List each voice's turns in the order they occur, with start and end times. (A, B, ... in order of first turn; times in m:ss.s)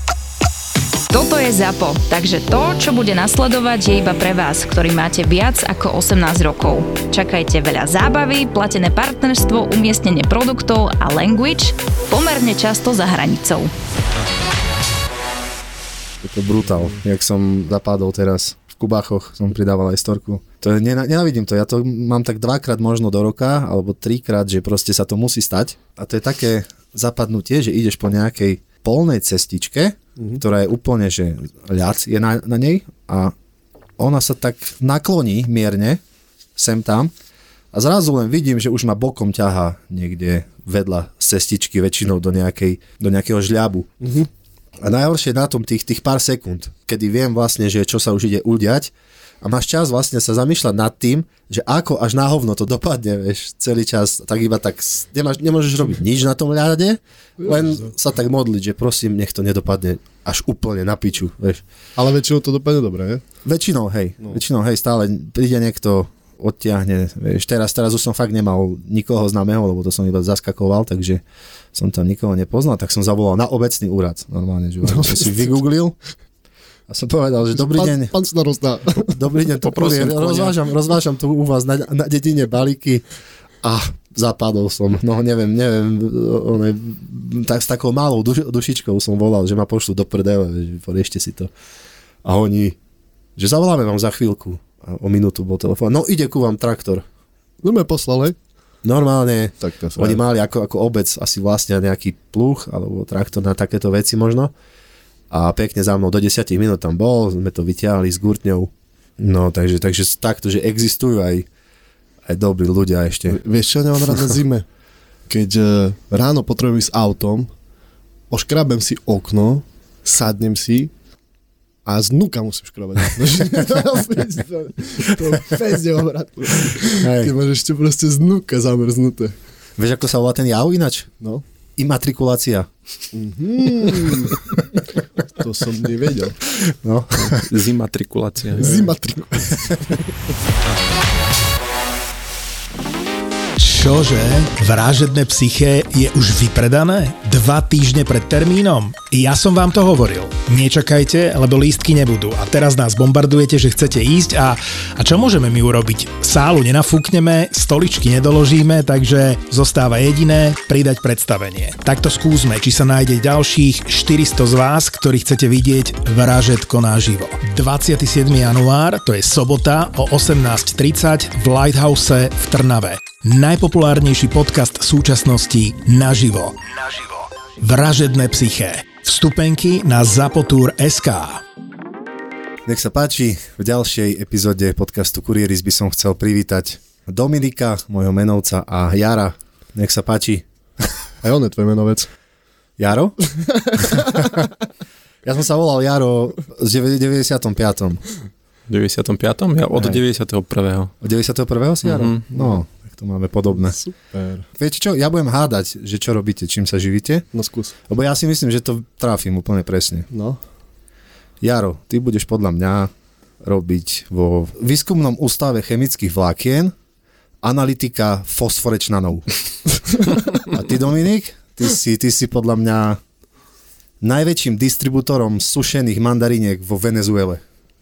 0:01.1-0:13.7 A
0:16.2-0:33.3 B
0:34.0-0:36.0 B
0:36.6-0:37.1 B
0:37.7-0:43.9 B
0:44.0-0:44.3 C
0:44.8-1:01.6 B
0:57.4-0:57.7 C
1:02.0-1:03.2 C
1:03.4-1:11.2 B
1:11.7-1:16.0 B
1:14.8-1:15.6 C
1:16.9-1:18.1 B
1:17.5-1:19.1 C
1:19.1-1:23.0 B
1:19.6-1:20.6 D
1:23.6-1:31.5 B
1:32.2-1:32.8 B
1:33.4-1:37.1 B
1:37.6-1:38.4 C
1:38.8-1:44.5 B
1:39.6-1:40.2 C
1:45.3-1:51.5 B
1:52.2-1:53.4 B
1:53.3-1:54.7 C
1:55.3-1:57.5 C
1:58.3-2:00.9 C
2:01.8-2:09.3 C
2:06.8-2:07.3 B
2:09.8-2:11.1 B
2:11.8-2:12.7 B
2:13.1-2:14.5 C
2:15.4-2:16.4 C
2:16.5-2:17.4 B
2:17.2-2:18.9 D
2:18.6-2:20.0 C
2:23.6-2:56.7 E
2:57.6-3:01.4 E
3:02.7-3:10.4 B
3:11.2-3:12.1 C
3:12.8-3:13.2 B
3:13.8-3:14.2 C
3:13.8-3:14.5 B
3:15.2-3:18.0 B
3:18.7-3:20.9 D
3:19.8-3:20.0 B
3:21.0-3:23.8 B
3:21.8-3:22.2 D
3:23.6-3:24.5 C
3:24.6-3:27.2 B
3:27.3-3:27.7 C
3:27.9-3:30.1 B
3:30.1-3:30.4 C
3:31.4-3:32.9 B
3:33.4-3:36.8 B
3:37.4-3:39.3 B
3:40.5-3:43.0 B
3:44.0-3:47.4 B